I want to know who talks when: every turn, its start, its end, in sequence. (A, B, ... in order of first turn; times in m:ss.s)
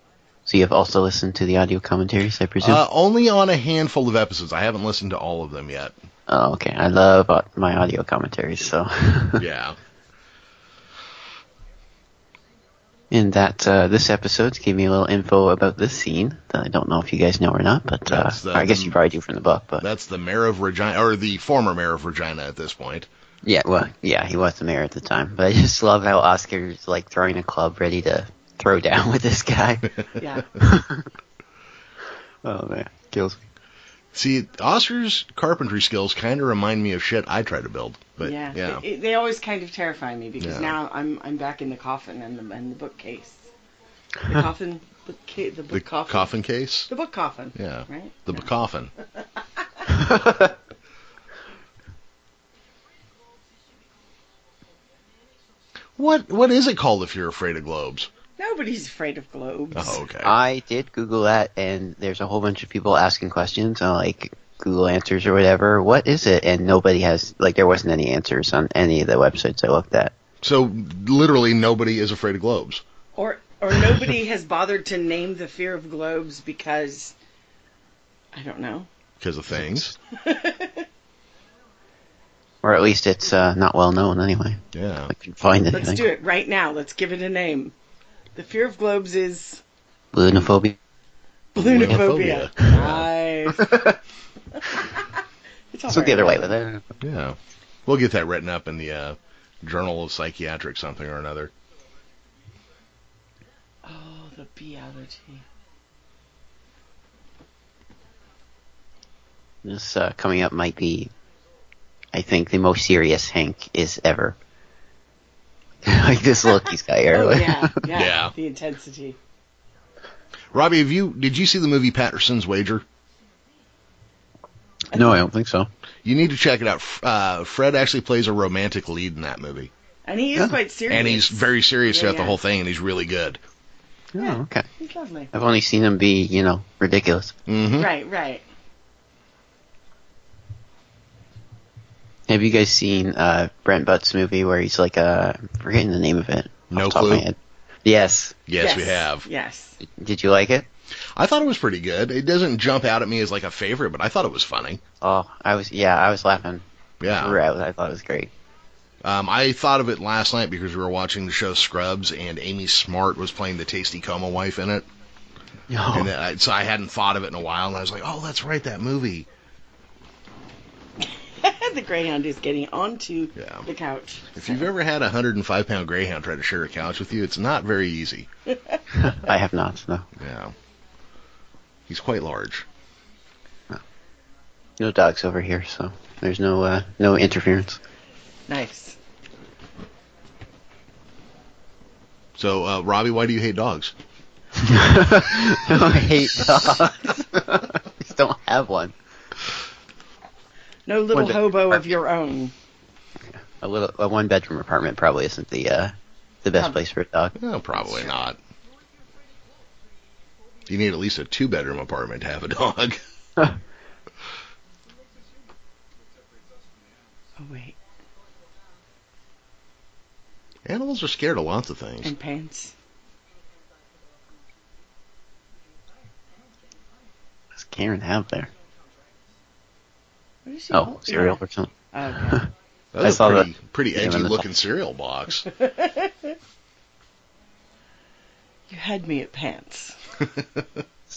0:00.4-0:02.8 A
0:02.6-0:05.9 B
0:06.3-0:09.4 A
0:09.4-0:09.8 B
0:13.1-0:19.8 A
0:18.1-0:19.0 B
0:19.8-0:23.1 B
0:23.4-0:30.0 A
0:30.2-0:30.5 C
0:30.5-0:31.1 A
0:32.4-0:33.4 A
0:34.1-0:38.8 B
0:38.2-0:43.5 C
0:40.4-0:40.8 B
0:44.2-0:46.3 C
0:45.7-0:46.9 B
0:46.9-0:48.5 C
0:47.5-0:48.9 B
0:50.1-0:50.5 A
0:56.0-0:58.1 B
0:58.4-1:00.0 C
0:59.7-1:00.4 B
1:00.2-1:10.1 A
1:10.4-1:12.8 B
1:13.2-1:17.1 C
1:18.3-1:18.9 C
1:19.2-1:19.9 B
1:20.1-1:20.9 C
1:22.6-1:26.0 A
1:24.7-1:25.1 B
1:25.7-1:27.7 C
1:28.3-1:29.6 C
1:30.1-1:30.8 A
1:31.6-1:33.1 B
1:31.6-1:33.9 C
1:34.5-1:35.2 C
1:35.7-1:36.5 C
1:35.9-1:36.8 A
1:37.0-1:41.5 B
1:43.8-1:45.4 C
1:49.6-1:51.1 A
1:52.1-1:54.4 A
1:55.8-1:57.8 A
1:57.1-1:59.2 C
1:57.9-1:58.3 B
2:00.5-2:02.8 B
2:04.9-2:05.7 A
2:06.0-2:09.7 B
2:10.0-2:12.4 C
2:10.9-2:13.4 B
2:14.1-2:14.7 A
2:14.2-2:15.3 C
2:15.3-2:17.3 A
2:17.5-2:17.9 B
2:17.8-2:18.4 C
2:22.3-2:28.4 A
2:26.7-2:27.2 B
2:28.5-2:29.3 B
2:28.6-2:29.8 C
2:29.8-2:30.6 A
2:31.2-2:34.8 B
2:35.0-2:38.3 A
2:37.0-2:37.4 B
2:39.0-2:44.9 B
2:45.7-2:46.1 A
2:45.9-2:49.3 B
2:51.0-2:54.6 C
2:53.4-2:53.7 B
2:54.3-2:58.3 B
2:58.5-2:58.8 C
2:58.9-3:00.1 A
3:00.2-3:00.5 B
3:01.9-3:02.6 B
3:04.8-3:07.8 A
3:08.5-3:09.0 C
3:12.4-3:13.9 B
3:14.6-3:18.9 A
3:16.4-3:16.9 C
3:20.9-3:22.5 C
3:21.1-3:21.8 A
3:23.3-3:27.3 A
3:27.4-3:28.4 B
3:27.8-3:28.1 C
3:30.7-3:33.0 B
3:37.4-3:37.8 C
3:40.6-3:42.1 B
3:42.0-3:42.7 C
3:47.5-3:48.5 A
3:50.4-3:51.4 C
3:50.7-3:52.5 A
3:51.9-3:52.4 C
3:52.9-3:55.5 B
3:53.0-3:54.5 A
3:55.5-3:56.3 C
3:58.7-4:00.0 C
4:00.3-4:00.7 B